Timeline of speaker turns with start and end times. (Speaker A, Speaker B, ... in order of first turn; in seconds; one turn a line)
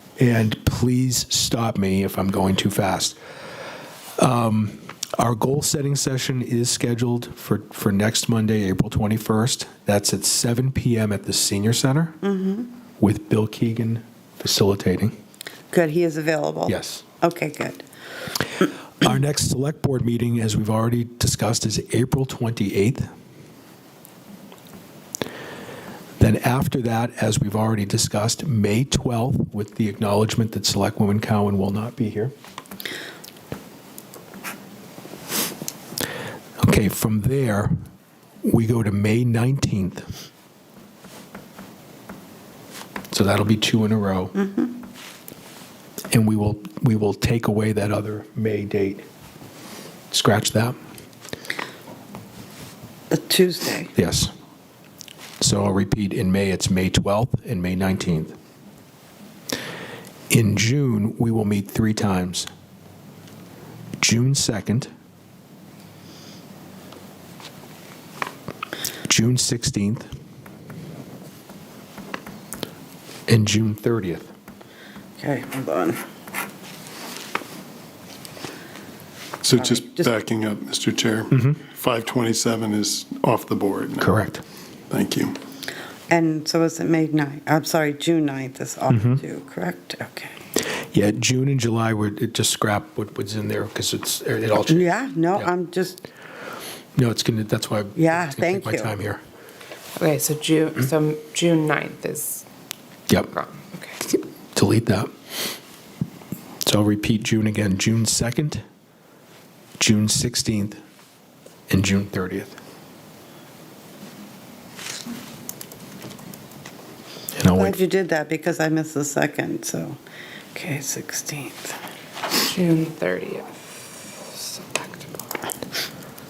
Speaker A: 0.2-3.2
Speaker A: 4.2-12.2
Speaker B: 12.2-12.7
Speaker A: 13.0-15.2
Speaker B: 15.7-17.8
Speaker A: 16.7-17.0
Speaker A: 19.0-23.1
Speaker A: 26.2-32.3
Speaker A: 36.6-37.7
Speaker A: 38.4-40.1
Speaker A: 43.1-44.4
Speaker B: 44.4-44.7
Speaker A: 46.1-49.0
Speaker A: 50.1-50.8
Speaker B: 53.1-53.9
Speaker A: 54.0-54.3
Speaker A: 55.4-58.4
Speaker A: 60.3-62.5
Speaker A: 64.0-64.9
Speaker A: 69.1-70.1
Speaker A: 73.3-74.3
Speaker B: 75.2-76.0
Speaker C: 79.4-84.1
Speaker B: 79.6-80.1
Speaker A: 81.3-81.6
Speaker A: 84.0-84.4
Speaker C: 84.9-85.4
Speaker B: 86.1-90.4
Speaker A: 88.9-89.2
Speaker A: 90.9-95.5
Speaker B: 94.7-96.0
Speaker A: 97.0-99.2
Speaker B: 98.0-98.9
Speaker D: 100.0-102.5
Speaker D: 103.3-104.0
Speaker A: 104.5-105.1
Speaker A: 106.6-108.6
Speaker A: 109.8-110.8
Speaker A: 111.7-112.6
Speaker A: 117.3-117.8
Speaker B: 117.5-120.0
Speaker B: 120.5-121.8
Speaker D: 122.4-123.6
Speaker D: 124.2-125.3